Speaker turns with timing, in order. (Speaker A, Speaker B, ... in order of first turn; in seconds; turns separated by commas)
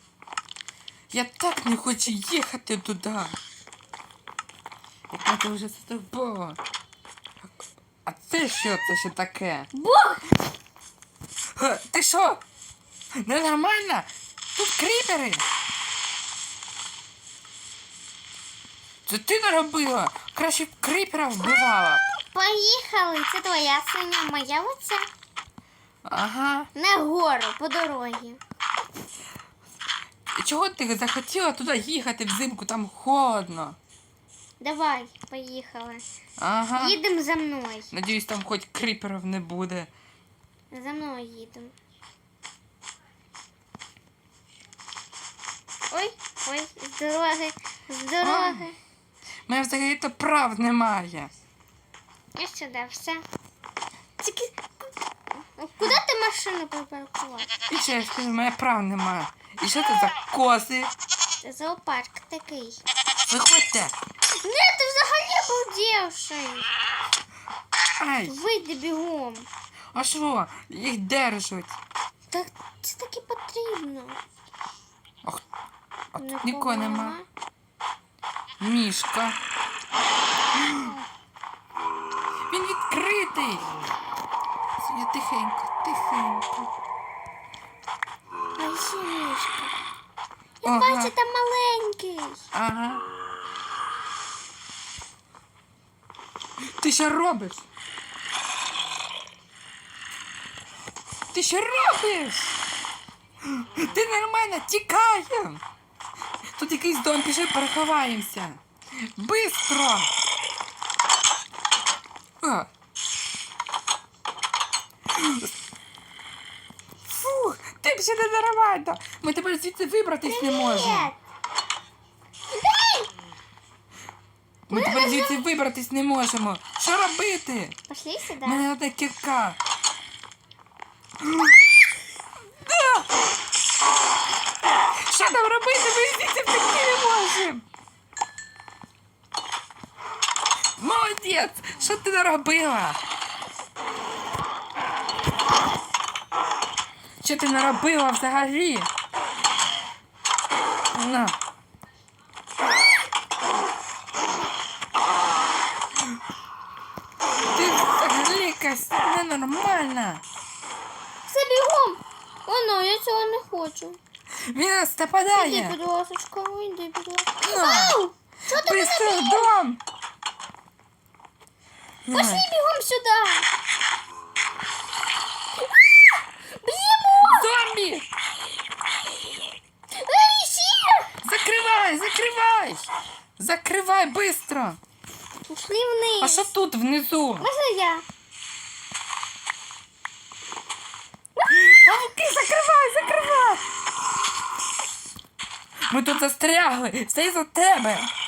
Speaker A: 1.1-3.4, Speaker A: 5.1-6.6, Speaker A: 8.1-9.7, Speaker B: 9.7-10.2, Speaker A: 11.6-12.4, Speaker A: 13.2-15.4, Speaker A: 19.1-22.0, Speaker B: 22.2-25.1, Speaker A: 26.1-26.7, Speaker B: 26.8-28.4, Speaker A: 30.3-33.8, Speaker B: 34.6-36.0, Speaker A: 36.4-37.0, Speaker B: 36.8-37.9, Speaker A: 37.9-39.9, Speaker B: 40.7-41.7, Speaker B: 45.9-48.8, Speaker A: 48.2-48.6, Speaker A: 49.5-51.3, Speaker B: 52.4-53.2, Speaker B: 54.2-54.7, Speaker B: 55.6-57.5, Speaker A: 57.7-60.9, Speaker B: 61.4-62.8, Speaker A: 63.3-64.0, Speaker B: 64.4-66.7, Speaker A: 67.8-68.4, Speaker B: 68.3-69.5, Speaker A: 69.9-71.8, Speaker B: 72.3-74.2, Speaker A: 76.1-77.2, Speaker B: 76.2-77.3, Speaker A: 78.6-79.4, Speaker A: 80.6-81.0, Speaker A: 82.5-83.7, Speaker A: 84.8-86.7, Speaker B: 88.6-89.7, Speaker B: 90.6-92.5, Speaker A: 90.6-91.1, Speaker A: 92.5-93.0, Speaker A: 96.8-97.7, Speaker A: 101.3-102.6, Speaker A: 103.4-105.6, Speaker A: 106.6-110.1, Speaker A: 112.4-112.7, Speaker A: 115.1-115.5, Speaker A: 117.1-121.1, Speaker B: 120.3-121.2, Speaker B: 122.5-123.1, Speaker A: 124.7-127.8, Speaker B: 124.7-125.4, Speaker B: 127.9-128.7, Speaker A: 128.4-129.6, Speaker A: 131.2-131.6, Speaker A: 132.6-133.2, Speaker A: 135.0-137.6, Speaker A: 140.8-143.0, Speaker A: 147.2-148.9, Speaker A: 150.9-151.4, Speaker A: 157.5-160.2, Speaker B: 161.3-164.0, Speaker A: 164.5-165.8, Speaker B: 165.3-169.5, Speaker A: 167.4-168.0, Speaker A: 168.6-169.8, Speaker A: 172.1-172.5, Speaker B: 172.1-173.5, Speaker B: 176.4-177.5, Speaker A: 177.2-178.1, Speaker B: 179.9-181.1, Speaker A: 181.2-184.8, Speaker B: 185.5-186.5, Speaker A: 186.2-187.5, Speaker B: 187.4-188.1, Speaker B: 191.4-191.8, Speaker A: 191.5-193.6, Speaker A: 195.9-198.1